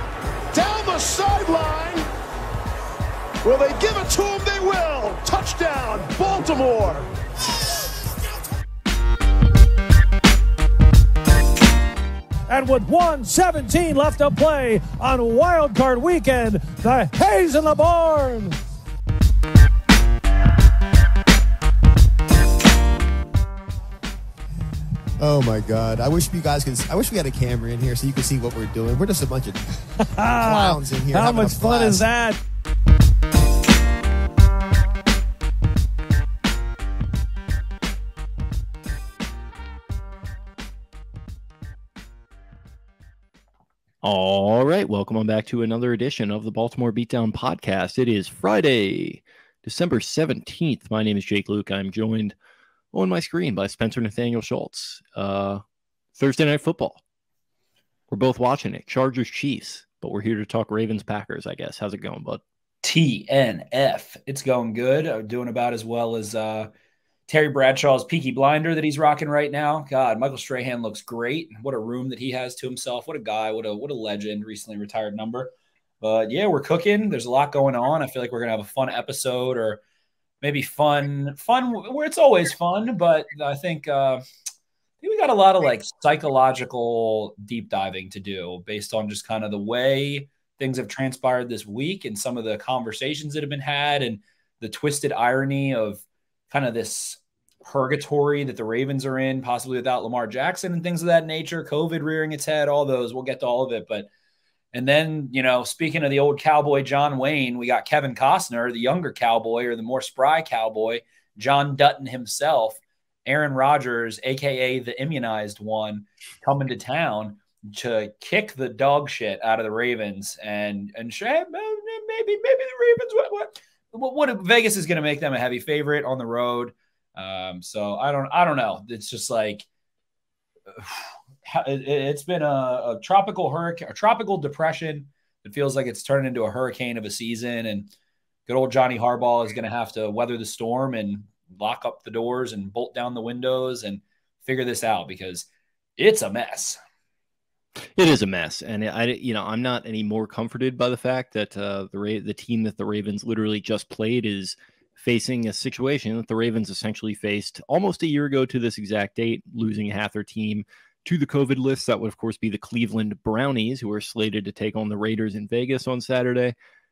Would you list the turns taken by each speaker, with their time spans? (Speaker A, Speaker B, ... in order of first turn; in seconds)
Speaker A: 0.5-2.1, 3.4-7.1
Speaker B: 12.5-18.6, 30.1-32.4
Speaker C: 25.2-32.1
Speaker D: 44.0-52.4, 52.9-55.6, 56.2-57.0, 58.1-62.4, 148.0-166.6
Speaker E: 62.8-66.7, 67.3-79.8, 80.4-84.2, 85.0-104.1, 104.7-129.7, 130.8-137.9, 138.5-146.8